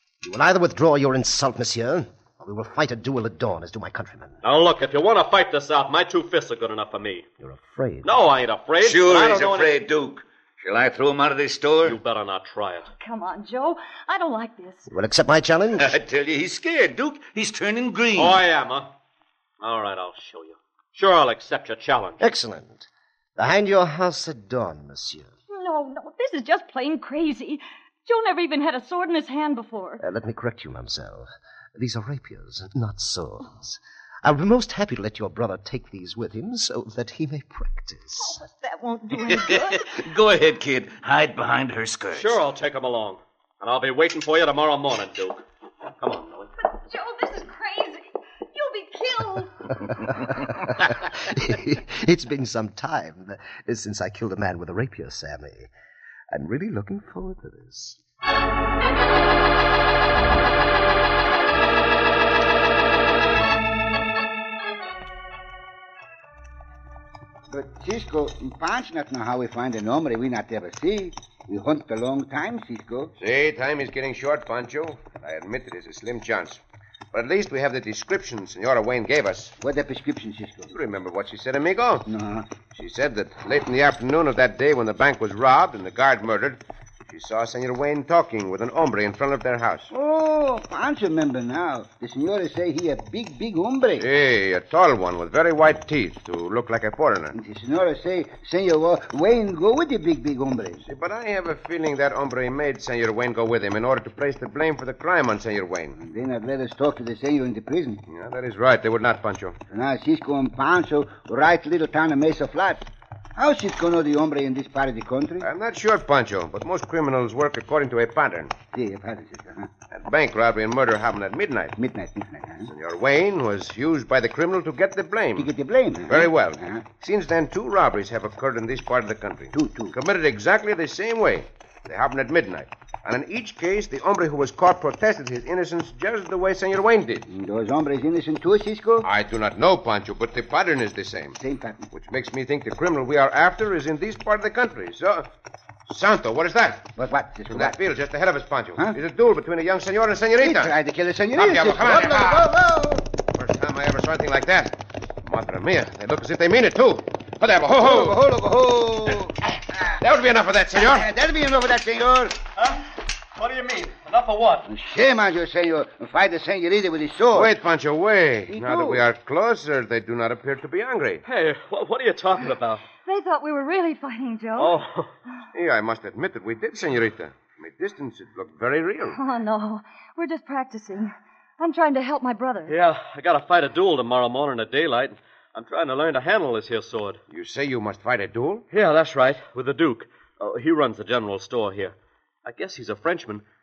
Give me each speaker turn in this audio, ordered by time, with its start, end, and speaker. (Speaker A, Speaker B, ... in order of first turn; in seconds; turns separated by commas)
Speaker A: 0.2-4.4, Speaker B: 4.4-7.3, Speaker A: 7.4-8.1, Speaker B: 8.0-9.8, Speaker C: 8.8-12.0, Speaker B: 11.8-12.9, Speaker D: 13.0-14.9, Speaker A: 14.9-16.0, Speaker C: 15.8-18.4, Speaker B: 18.1-18.9, Speaker B: 19.6-22.2, Speaker A: 22.2-25.3, Speaker D: 25.5-30.0, Speaker A: 30.0-38.4, Speaker D: 38.3-39.9, Speaker C: 39.3-42.4, Speaker B: 42.1-45.4, Speaker B: 46.0-46.5, Speaker D: 46.7-49.8, Speaker A: 50.1-55.7, Speaker A: 56.3-58.0, Speaker E: 67.5-73.1, Speaker F: 73.2-76.6, Speaker F: 77.1-79.6, Speaker E: 79.6-80.7, Speaker F: 80.7-82.1, Speaker E: 82.1-82.5, Speaker F: 82.7-89.9, Speaker E: 89.9-94.0, Speaker F: 94.0-97.4, Speaker E: 97.3-100.8, Speaker F: 100.8-106.0, Speaker E: 106.0-108.0, Speaker F: 108.1-109.6, Speaker E: 109.7-112.8, Speaker E: 113.4-115.5, Speaker F: 115.4-118.6, Speaker E: 118.7-119.7, Speaker F: 119.9-121.8, Speaker E: 121.8-122.7, Speaker F: 122.7-125.5, Speaker E: 125.4-126.8, Speaker F: 126.1-137.3, Speaker E: 129.5-129.9, Speaker E: 137.3-139.1, Speaker F: 139.0-141.4, Speaker E: 141.4-141.9, Speaker F: 141.9-145.3, Speaker F: 145.9-146.9, Speaker E: 147.0-147.8, Speaker F: 147.5-150.8, Speaker E: 150.4-153.1, Speaker F: 151.3-152.5, Speaker F: 153.3-158.2, Speaker E: 157.8-159.4, Speaker F: 160.0-161.1, Speaker E: 160.8-162.4, Speaker B: 162.6-164.7, Speaker E: 164.7-167.5, Speaker F: 167.3-171.2, Speaker E: 168.5-169.0, Speaker B: 171.3-172.8, Speaker D: 173.0-174.8, Speaker B: 174.6-175.1, Speaker F: 175.5-179.2, Speaker D: 179.1-182.7, Speaker B: 182.7-187.2, Speaker F: 187.3-188.7, Speaker B: 188.7-193.4